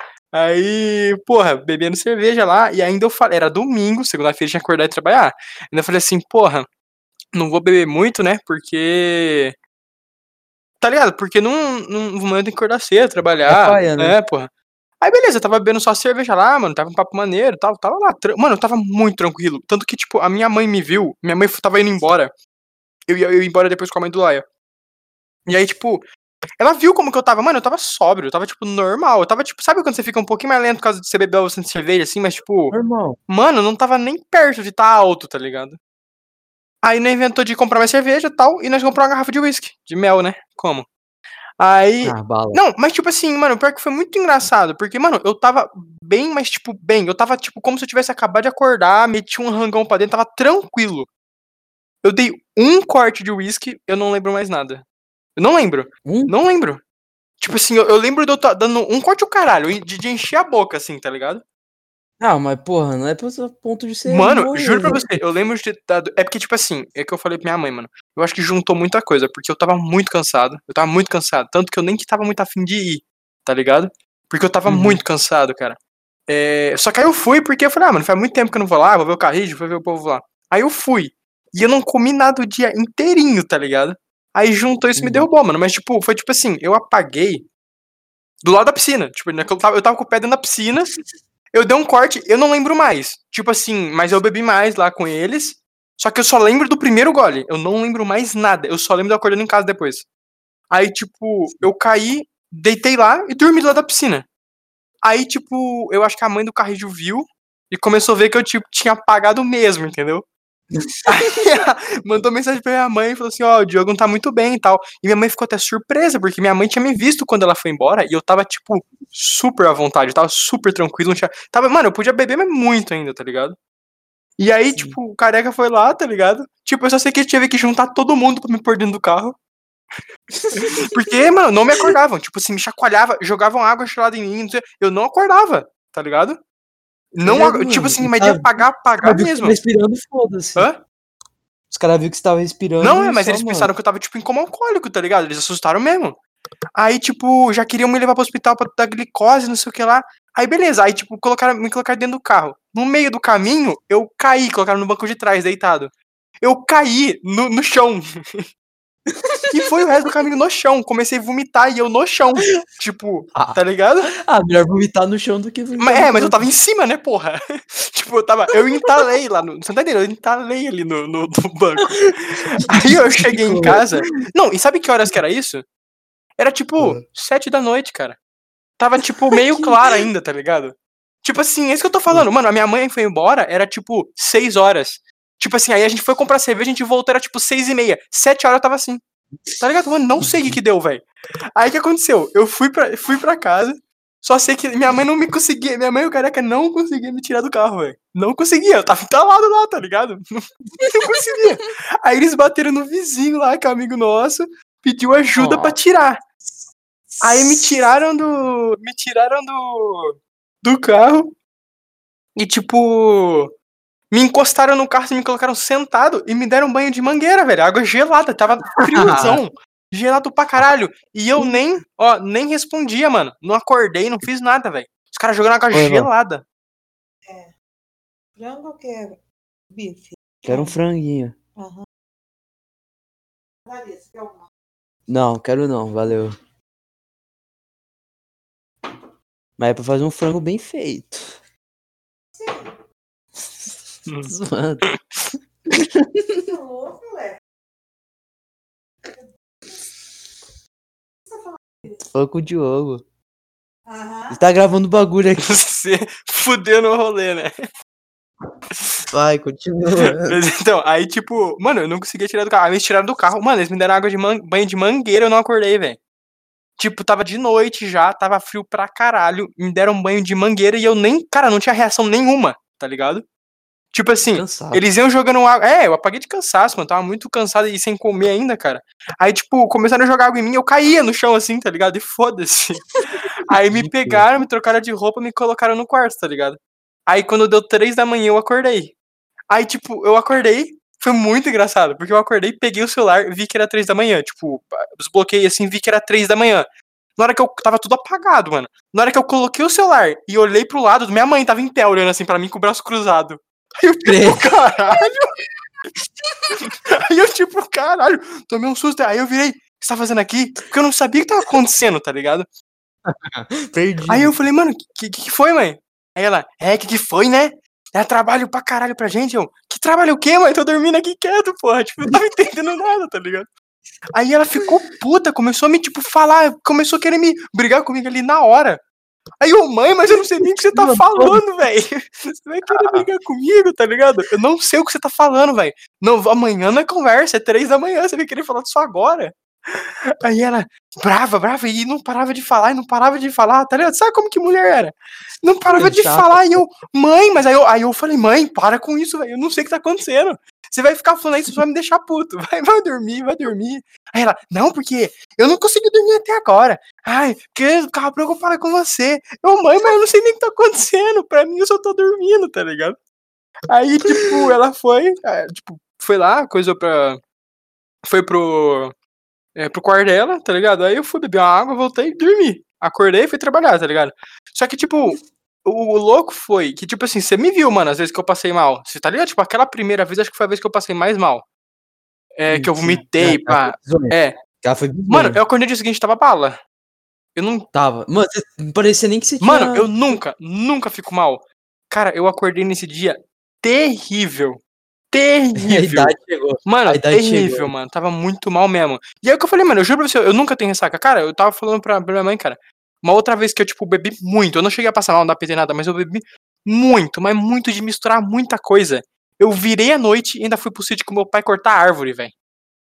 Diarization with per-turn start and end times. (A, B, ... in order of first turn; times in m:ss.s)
0:00.3-0:06.6 A
0:07.3-0:09.5 A
0:10.8-0:14.5 A
0:13.5-0:14.2 B
0:15.0-0:22.3 A
0:23.1-0:24.4 A
0:25.5-0:26.0 A
0:26.6-0:32.8 A
0:32.7-0:33.2 B
0:33.3-0:35.8 A
0:36.8-0:40.9 A
0:41.6-0:51.1 A
0:42.0-0:42.6 B
0:52.0-0:54.8 A
0:55.4-0:56.8 A
0:56.0-0:56.3 B
0:57.4-1:01.4 A
1:02.2-1:05.1 B
1:04.1-1:27.4 A
1:14.7-1:15.0 B
1:25.0-1:25.3 B
1:28.4-1:31.0 A
1:31.5-1:40.1 A
1:40.7-1:44.2 A
1:45.0-1:50.2 A
1:50.8-1:51.1 B
1:51.0-2:03.6 A
2:04.4-2:09.4 A
2:10.3-2:11.0 B
2:10.5-2:16.4 A
2:17.1-2:19.6 A
2:17.2-2:20.7 B
2:21.7-2:23.7 B
2:22.8-2:26.2 A
2:26.8-2:38.4 A
2:39.1-2:39.5 B
2:39.5-2:44.1 A
2:43.3-2:43.6 B
2:44.1-2:46.5 B
2:45.8-2:55.6 A
2:52.7-2:54.1 B
2:56.4-2:58.2 A
2:58.8-3:09.0 A
2:59.3-3:00.0 B
3:09.6-3:26.2 A
3:10.2-3:10.6 B
3:25.3-3:25.8 B
3:27.1-3:27.8 B
3:27.2-3:31.3 A
3:32.4-3:33.5 A
3:34.1-3:46.4 A
3:38.8-3:39.4 B
3:41.4-3:41.6 B
3:45.7-3:46.1 B
3:47.2-3:47.5 C
3:48.4-3:49.2 C
3:49.7-3:50.8 C
3:50.4-3:51.3 B
3:51.6-3:51.8 C
3:53.7-3:54.4 C
3:55.1-3:56.3 B
3:59.6-4:01.3 B
4:02.4-4:02.8 C
4:04.1-4:05.0 A
4:04.2-4:04.9 B
4:05.7-4:06.5 B
4:06.5-4:07.3 C
4:11.3-4:11.9 C
4:12.0-4:13.0 B
4:13.9-4:14.4 C
4:14.3-4:15.6 B
4:15.4-4:17.5 A
4:19.1-4:20.4 B
4:20.0-4:26.0 A
4:26.8-4:33.2 A
4:33.9-4:48.9 A
4:34.3-4:34.8 B
4:43.5-4:44.3 B
4:49.5-5:05.2 A
5:04.0-5:04.5 B
5:06.6-5:12.4 A
5:13.0-5:14.3 B
5:14.1-5:23.5 A
5:24.1-5:28.8 A
5:29.4-6:03.0 A
5:30.1-5:31.4 B
5:32.7-5:33.1 B
5:45.7-5:46.6 B
6:03.7-6:07.2 A
6:04.1-6:04.4 B
6:08.1-6:08.9 A
6:09.5-6:21.4 A
6:22.4-6:24.4 A
6:22.5-6:25.4 B
6:25.1-6:26.6 A
6:27.3-6:27.7 A
6:27.7-6:29.9 B
6:29.4-6:34.6 A
6:35.1-6:52.3 A
6:35.6-6:37.7 B